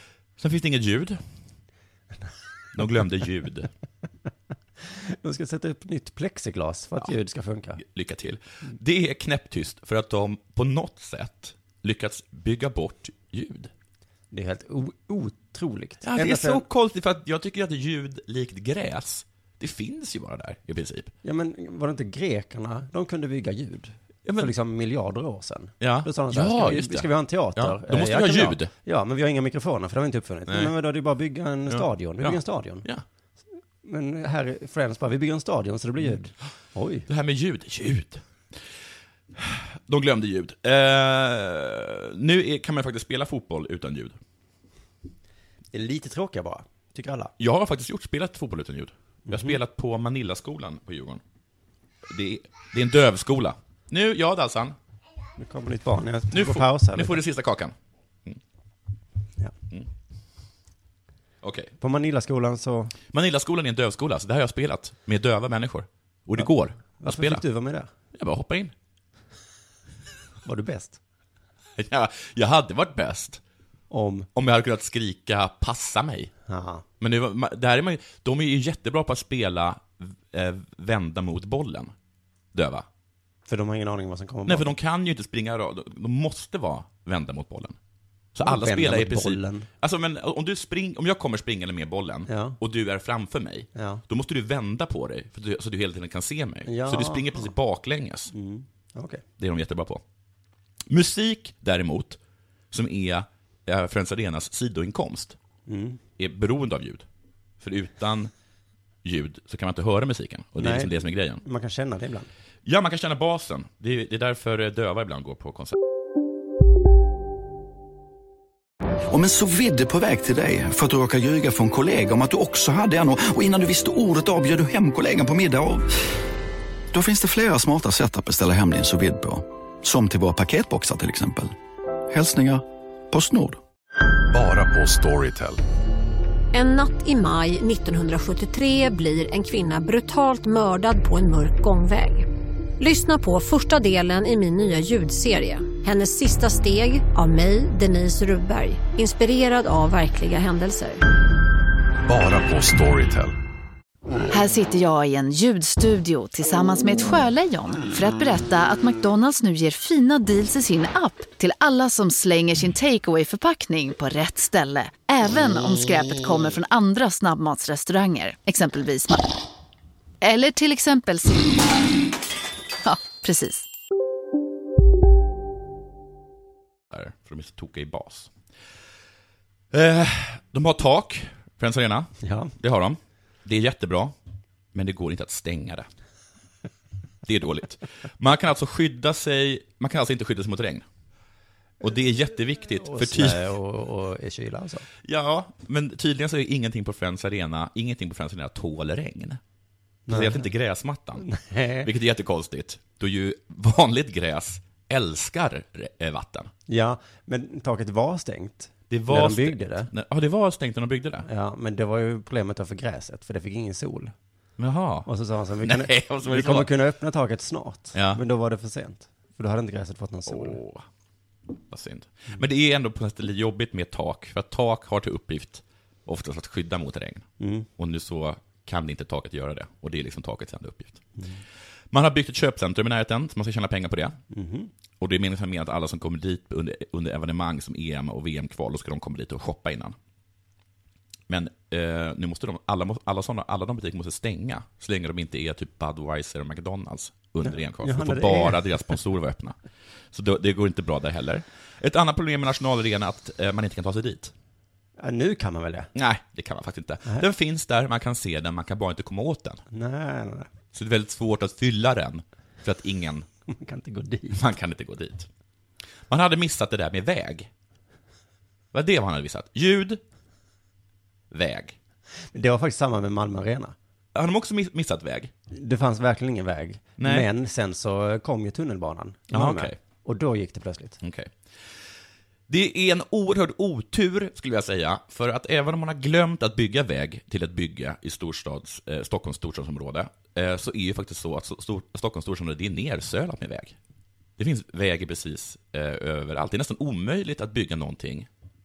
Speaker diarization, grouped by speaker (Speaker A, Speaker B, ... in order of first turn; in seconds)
Speaker A: 0.4-1.2, 2.7-3.7, 7.8-13.7, 16.0-21.1, 24.2-24.5, 25.8-28.7, 30.5-30.7, 31.7-33.0, 37.1-38.2, 39.3-44.2, 47.4-51.2, 52.1-54.8, 56.3-58.4, 61.4-61.7, 63.1-67.4, 68.1-68.7, 71.8-73.4, 74.3-76.3, 77.0-81.9, 82.5-82.9, 84.5-87.8, 88.3-98.3, 99.4-100.0, 100.9-102.2, 102.7-105.4, 106.2-107.0, 107.6-108.3, 109.0-111.4, 112.6-115.8, 176.9-178.3, 179.7-184.2, 184.7-185.9, 187.2-190.8, 191.8-193.5, 195.0-199.4, 200.1-201.3, 201.8-206.5, 208.9-211.3, 214.6-215.1, 215.6-216.7, 217.9-218.2, 220.3-220.8, 221.6-227.3, 227.8-231.0, 231.9-234.2, 235.0-239.9, 241.3-249.6, 250.1-254.3, 255.9-259.6, 260.7-263.2, 264.3-265.3, 266.1-267.5, 268.7-270.0, 271.3-271.8, 274.1-275.3, 277.0-277.3, 279.3-279.8, 281.0-281.4, 282.5-293.8, 294.4-298.3
Speaker B: 4.9-7.8, 14.3-16.6, 21.2-32.9, 33.8-37.1, 45.7-47.3, 49.3-49.5, 55.4-57.2, 61.8-62.9, 67.0-67.9, 70.4-71.0, 73.9-74.3, 76.5-76.8, 83.5-84.7, 88.4-89.7, 92.3-92.6, 93.7-94.0, 96.6-97.5, 98.3-99.2, 105.7-106.0, 110.6-112.3, 182.2-182.5, 192.8-194.9, 200.1-200.5, 201.2-201.9, 206.7-209.9, 211.2-214.1, 215.1-220.6, 227.4-227.7, 234.3-234.7, 247.5-248.9, 255.0-255.9, 259.7-260.5, 263.5-264.4, 272.3-273.7, 275.5-281.0
Speaker C: 119.1-126.0, 126.9-131.5, 132.1-133.6
Speaker D: 134.3-135.6, 152.1-153.3
Speaker E: 136.5-142.2, 142.8-151.0
Speaker F: 154.3-169.3, 170.2-171.8, 172.8-173.7